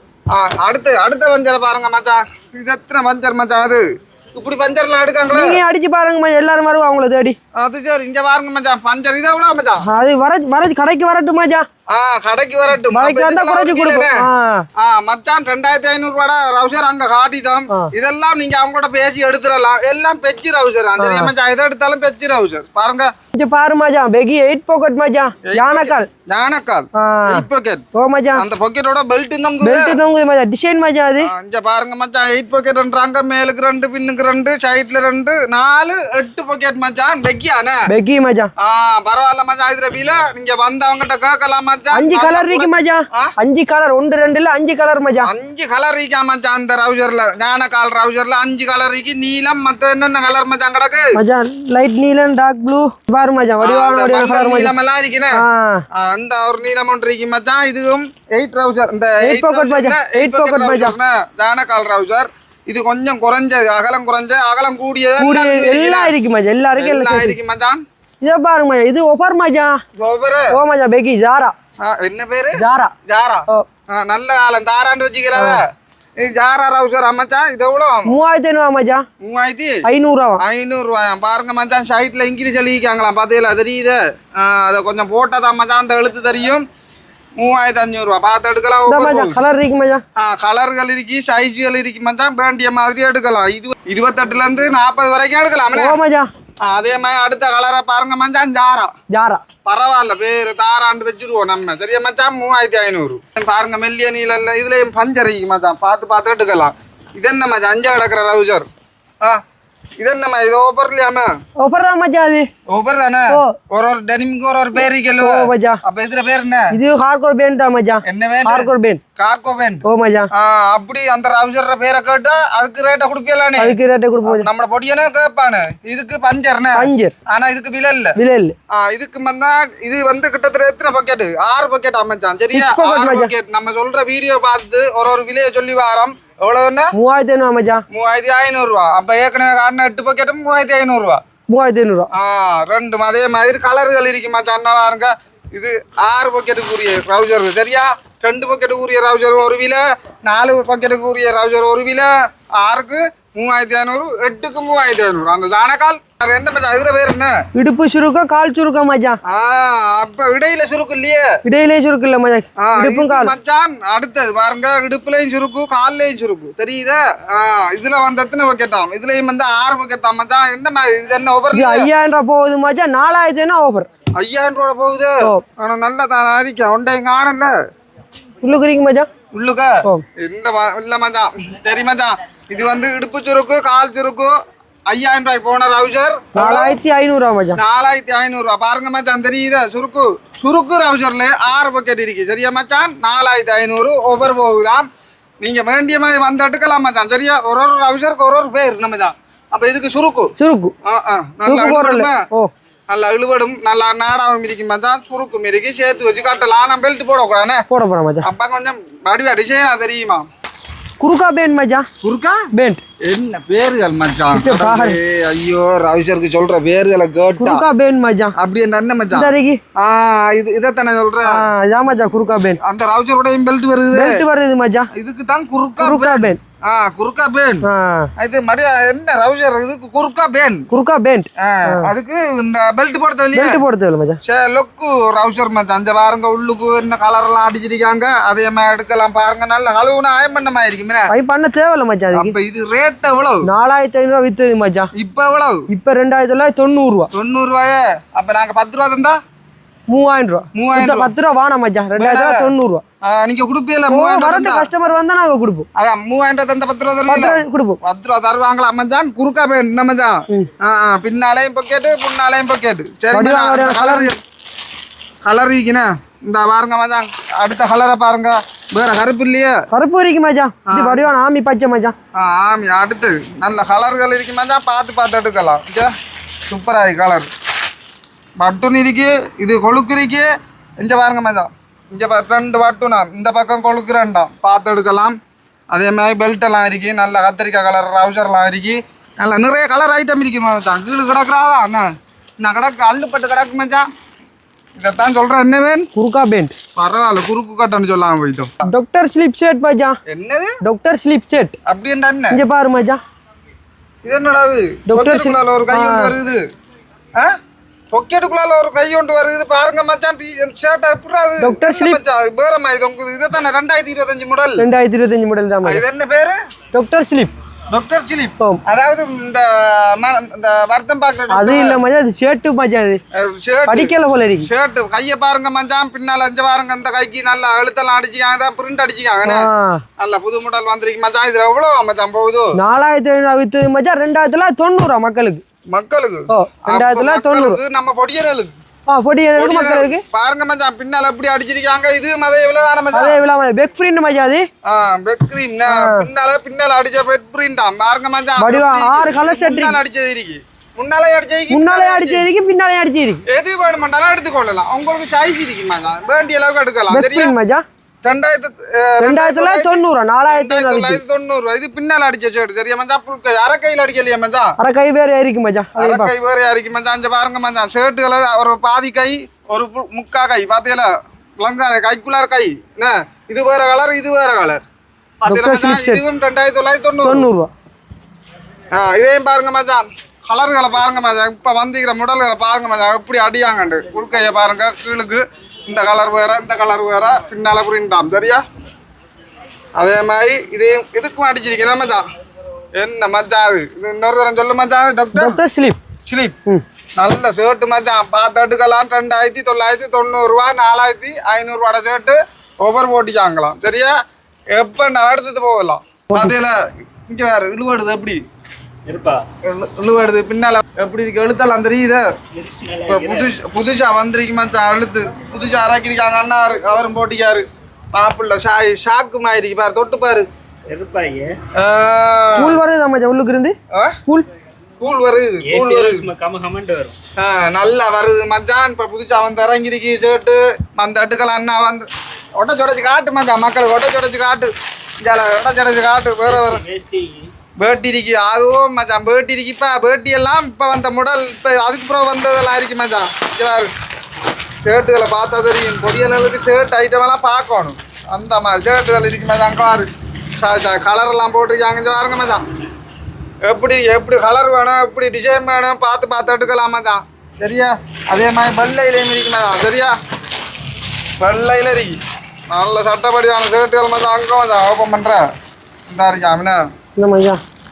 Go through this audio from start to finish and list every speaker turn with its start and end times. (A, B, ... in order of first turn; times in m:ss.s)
0:00.3-0:05.6 A
0:05.3-0:07.4 B
0:07.6-0:09.9 A
0:09.8-0:11.7 B
0:11.9-0:14.2 A
0:12.9-0:14.7 B
0:14.8-0:23.1 A
0:21.0-0:21.3 B
0:23.3-0:26.1 B
0:25.4-0:27.8 A
0:27.0-0:28.4 B
0:28.4-0:30.0 A
0:29.6-0:31.3 B
0:31.2-0:37.8 A
0:37.9-0:38.5 B
0:38.6-0:43.3 A
0:41.9-0:45.3 B
0:45.2-0:51.2 A
0:51.1-0:54.7 B
0:53.6-0:55.4 A
0:55.4-0:55.8 B
0:56.0-1:06.1 A
0:59.2-1:01.0 B
1:05.2-1:07.4 B
1:06.8-1:07.8 A
1:08.2-1:09.8 B
1:10.0-1:10.6 A
1:10.5-1:11.5 B
1:11.8-1:15.7 A
1:12.6-1:12.9 B
1:15.3-1:15.6 B
1:16.2-1:18.1 A
1:18.1-1:19.0 B
1:19.2-1:19.9 A
1:19.8-1:20.4 B
1:20.4-1:26.6 A
1:27.4-1:29.4 A
1:28.9-1:30.0 B
1:30.2-1:36.0 A
1:35.7-1:36.3 B
1:36.6-1:38.9 A
1:39.1-1:39.4 B
1:39.6-1:48.7 A
1:50.0-1:51.3 A
1:51.6-1:52.5 B
1:52.7-1:56.8 A
1:53.3-1:53.6 B
1:55.2-1:55.8 B
1:56.7-1:59.0 B
1:58.0-2:08.2 A
1:59.8-2:00.3 B
2:03.6-2:04.5 B
2:06.8-2:07.1 B
2:08.2-2:08.6 B
2:08.7-2:16.9 A
2:12.5-2:13.3 B
2:16.9-2:17.8 B
2:17.9-2:21.2 A
2:21.5-2:22.1 B
2:22.1-2:37.4 A
2:37.5-2:39.2 B
2:39.2-2:41.3 A
2:41.4-2:43.3 B
2:42.6-2:51.9 A
2:51.5-2:53.9 B
2:54.2-2:57.6 A
2:58.4-2:59.1 B
2:59.3-3:06.8 A
3:06.4-3:07.6 B
3:07.6-3:14.9 A
3:15.4-3:22.2 A
3:20.4-3:20.7 B
3:21.4-3:22.5 B
3:22.9-3:27.6 A
3:27.7-3:28.3 B
3:28.2-3:30.2 A
3:31.0-3:31.9 B
3:32.0-3:32.5 A
3:32.5-3:32.8 B
3:33.0-3:37.6 A
3:34.3-3:35.0 B
3:37.4-3:38.4 B
3:38.4-3:41.4 A
3:39.1-3:39.6 B
3:41.2-3:42.6 B
3:42.6-3:44.2 A
3:43.9-3:44.9 B
3:44.9-3:47.6 A
3:45.8-3:46.4 B
3:47.6-3:48.1 B
3:48.2-3:50.7 A
3:50.7-3:51.9 B
3:51.4-3:53.6 A
3:53.3-3:54.2 B
3:54.2-4:01.1 A
4:01.1-4:02.3 B
4:02.1-4:03.5 A
4:03.4-4:04.9 B
4:05.0-4:05.7 A
4:05.7-4:07.1 B
4:07.1-4:09.2 A
4:09.9-4:12.8 B
4:10.5-4:11.1 A
4:12.0-4:12.5 A
4:13.0-4:14.7 A
4:13.9-4:15.7 B
4:15.8-4:24.2 A
4:17.1-4:17.8 B
4:23.1-4:24.1 B
4:25.2-4:29.6 A
4:29.7-4:32.0 B
4:30.6-4:31.0 A
4:32.1-4:35.9 A
4:36.5-4:37.3 A
4:38.4-4:45.2 A
4:45.7-4:51.9 A
4:52.4-4:53.9 A
4:54.8-4:55.9 A
4:56.0-4:56.6 B
4:56.8-4:58.7 A
4:58.7-5:00.0 B
5:00.1-5:00.5 A
5:00.6-5:01.6 B
5:01.6-5:02.4 A
5:02.3-5:03.0 B
5:04.0-5:06.4 A
5:04.9-5:06.1 B
5:07.9-5:14.6 A
5:11.4-5:12.0 B
5:14.6-5:15.8 B
5:15.6-5:16.4 A
5:16.7-5:17.3 B
5:17.7-5:21.8 A
5:21.3-5:23.0 B
5:23.1-5:29.5 A
5:23.7-5:24.5 B
5:29.2-5:29.8 B
5:30.0-5:32.6 A
5:32.6-5:35.4 B
5:35.7-5:38.5 A
5:36.3-5:37.6 B
5:38.9-5:40.0 B
5:39.4-5:43.2 A
5:42.9-5:44.5 B
5:44.6-5:52.3 A
5:45.6-5:46.1 B
5:48.4-5:49.8 B
5:51.5-5:53.2 B
5:53.3-5:57.3 A
5:56.9-5:57.6 B
5:58.0-6:04.5 A
5:59.0-6:01.0 B
6:04.6-6:06.1 B
6:05.8-6:14.6 A
6:15.2-6:17.3 A
6:15.3-6:16.0 B
6:17.0-6:17.5 B
6:18.7-6:28.4 A
6:29.8-6:32.1 A
6:32.8-6:35.4 A
6:35.1-6:35.8 B
6:36.1-6:36.4 A
6:37.0-6:44.0 A
6:44.5-6:48.2 A
6:46.1-6:46.4 B
6:48.9-6:49.2 C
6:49.4-6:52.2 A
6:52.3-6:53.3 C
6:52.9-7:00.3 A
7:00.7-7:01.3 C
7:01.6-7:02.6 A
7:02.4-7:04.3 B
7:03.7-7:04.0 A
7:04.8-7:06.1 A
7:05.4-7:07.0 C
7:07.2-7:16.6 A
7:16.3-7:17.3 C
7:17.6-7:23.7 A
7:24.6-7:32.4 A
7:33.4-7:40.0 A
7:41.2-7:42.0 A
7:42.5-7:45.2 A
7:45.9-7:46.6 A
7:47.0-7:47.4 B